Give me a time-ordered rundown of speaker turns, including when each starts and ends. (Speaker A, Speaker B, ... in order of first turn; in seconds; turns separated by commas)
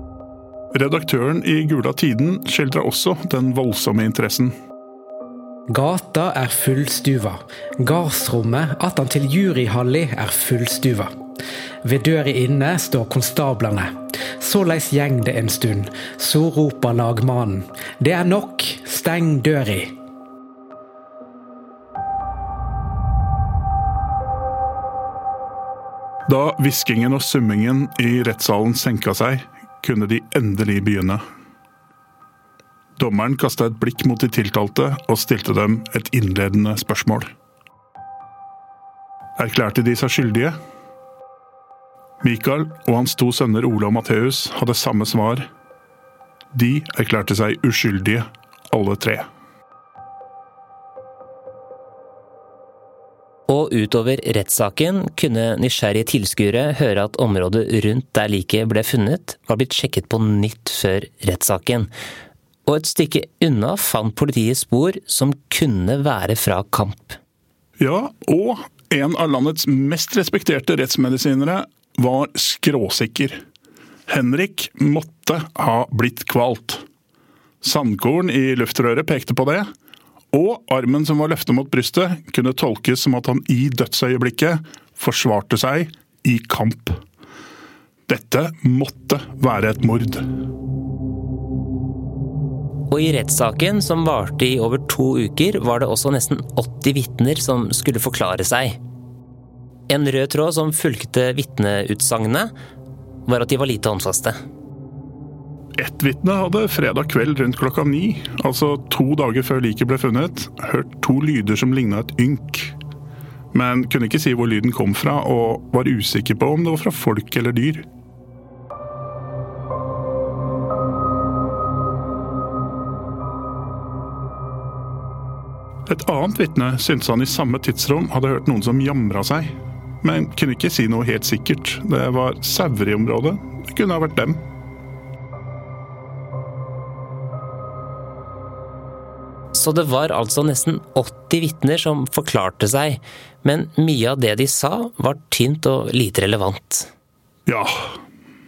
Speaker A: 0.7-4.5, Speaker B: 5.7-11.1, Speaker B: 11.8-19.9, Speaker A: 26.3-31.2, Speaker A: 33.0-37.3, Speaker A: 39.4-40.5, Speaker A: 42.2-45.5, Speaker A: 46.5-49.3, Speaker C: 53.5-61.9, Speaker C: 62.7-67.2, Speaker A: 67.8-73.4, Speaker A: 74.1-76.8, Speaker A: 77.6-79.7, Speaker A: 80.3-87.0, Speaker A: 88.1-90.3, Speaker C: 92.9-98.8, Speaker C: 99.9-102.5, Speaker C: 103.3-104.4, Speaker A: 105.8-112.7, Speaker A: 113.5-117.9, Speaker A: 125.9-134.4, Speaker C: 139.5-146.9, Speaker A: 147.5-148.0